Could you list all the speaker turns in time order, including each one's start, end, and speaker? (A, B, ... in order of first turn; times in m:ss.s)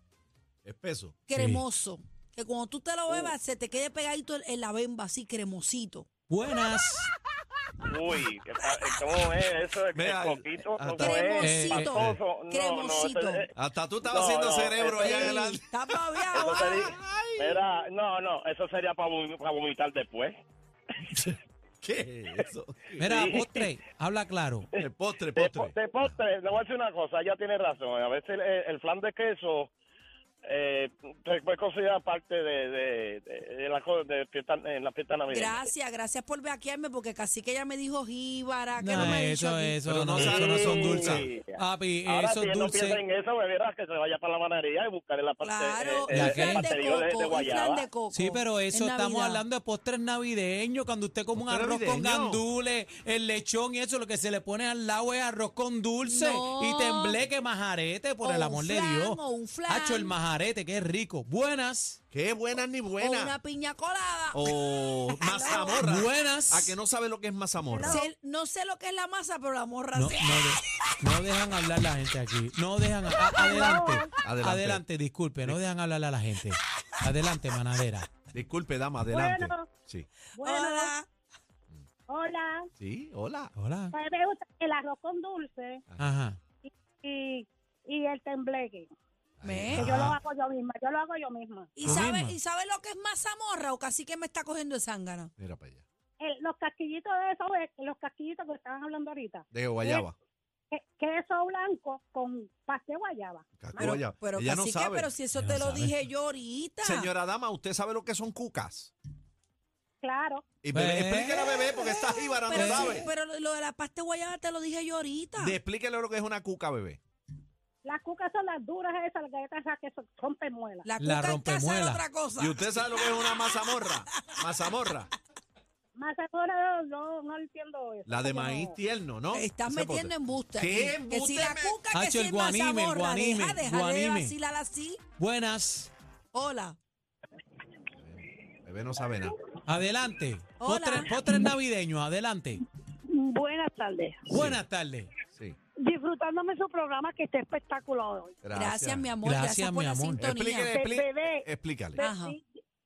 0:00.6-0:01.2 A
0:01.3-0:06.1 B
0:01.3-0:01.6 C
0:06.3-0:07.1 C
0:07.8-0:13.5 D
0:09.9-0:11.3 A
0:11.0-0:13.5 B
0:11.4-0:12.2 C
0:13.6-0:15.6 A
0:14.0-0:15.4 D
0:15.0-0:16.8 B
0:16.2-0:17.6 A
0:16.3-0:20.4 D
0:21.1-0:23.0 A
0:23.0-0:24.7 C
0:23.0-0:23.7 D
0:24.7-0:26.1 A
0:25.4-0:29.7 D
0:30.5-0:35.6 D
0:35.3-0:39.8 B
0:38.8-0:43.0 C
0:39.8-0:41.3 A
0:40.1-0:47.9 D
0:45.4-0:49.4 B
0:46.1-0:46.7 C
0:48.1-1:02.0 C
0:51.4-0:52.4 A
0:56.0-0:57.2 B
0:58.2-1:00.2 B
1:02.1-1:03.4 A
1:03.0-1:05.8 B
1:04.3-1:08.0 A
1:05.3-1:05.7 E
1:05.8-1:06.8 C
1:07.7-1:08.1 E
1:07.9-1:10.5 B
1:10.0-1:18.2 C
1:13.4-1:14.2 E
1:14.2-1:14.8 A
1:18.3-1:20.1 A
1:19.1-1:19.7 E
1:20.4-1:21.0 E
1:20.4-1:21.1 B
1:22.1-1:22.7 E
1:22.8-1:23.5 A
1:23.6-1:23.9 C
1:23.9-1:25.8 E
1:26.0-1:26.4 C
1:26.5-1:28.9 E
1:29.4-1:30.0 A
1:29.4-1:29.9 B
1:29.8-1:30.2 C
1:29.8-1:31.7 E
1:31.8-1:35.3 B
1:31.8-1:32.4 C
1:35.4-1:35.8 A
1:36.2-1:40.1 E
1:39.5-1:40.2 A
1:40.7-1:44.0 E
1:43.6-1:45.1 A
1:43.8-1:47.1 B
1:45.3-1:45.9 C
1:46.8-1:48.9 A
1:50.0-1:50.4 E
1:50.6-1:53.1 A
1:50.7-1:51.4 C
1:51.2-1:55.6 B
1:52.5-1:53.0 C
1:55.4-1:57.0 A
1:57.8-2:00.9 E
2:00.8-2:03.4 B
2:01.0-2:02.0 C
2:02.4-2:05.1 A
2:06.0-2:08.8 E
2:08.1-2:11.8 A
2:09.3-2:15.0 B
2:11.9-2:14.4 C
2:15.2-2:15.9 C
2:16.3-2:16.8 B
2:18.0-2:19.4 A
2:19.7-2:22.6 C
2:20.6-2:21.1 B
2:23.1-2:24.3 E
2:24.3-2:25.1 C
2:24.3-2:24.6 A
2:25.3-2:25.6 A
2:25.8-2:28.3 E
2:28.4-2:29.1 A
2:28.5-2:30.7 B
2:29.2-2:30.2 C
2:30.2-2:32.0 A
2:30.7-2:32.4 E
2:32.0-2:32.4 B